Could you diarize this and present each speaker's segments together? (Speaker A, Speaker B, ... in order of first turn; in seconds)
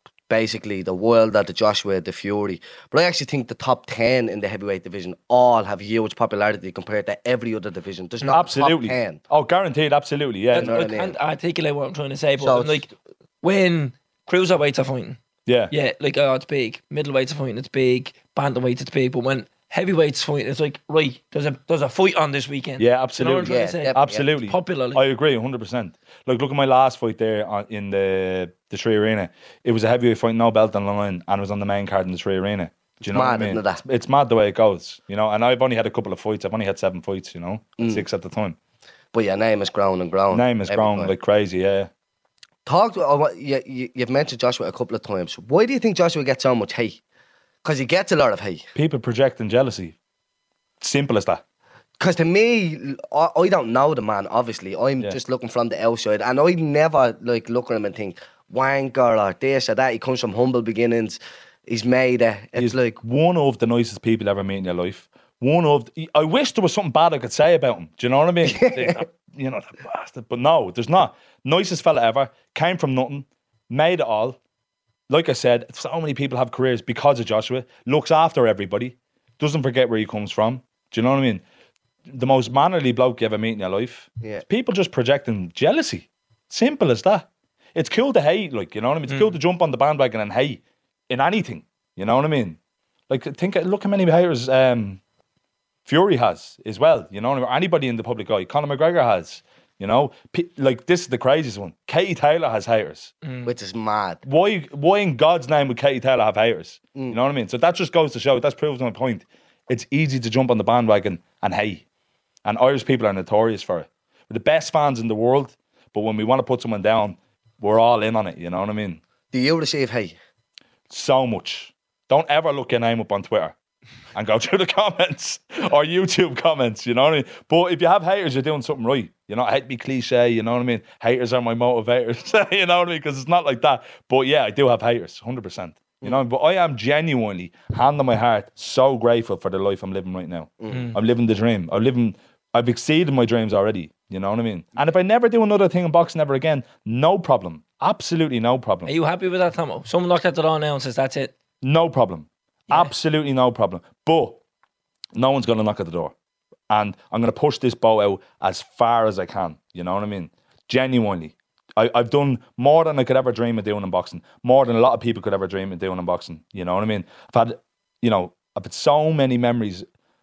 Speaker A: 0.3-9.2, 10.5-11.2, 12.4-12.9, 23.4-24.3, 33.1-33.8, 37.8-38.0, 39.1-41.1, 42.6-47.0, 47.6-48.6, 52.0-63.0, 68.4-69.0, 103.4-104.2, 119.3-120.2, 140.6-140.9
Speaker B: 8.3-10.7, 15.4-15.7, 22.8-38.5, 40.3-41.9, 48.7-50.0, 50.8-51.4, 62.5-74.4, 75.1-81.4, 82.1-92.6, 93.1-95.0, 95.8-103.1, 104.2-111.8, 112.4-119.0, 120.9-123.5, 124.1-148.9, 151.6-154.4, 155.1-156.1, 156.7-169.8
Speaker C: 10.5-12.9, 13.4-15.2, 15.7-25.0, 103.2-103.5, 140.7-141.0, 148.8-151.3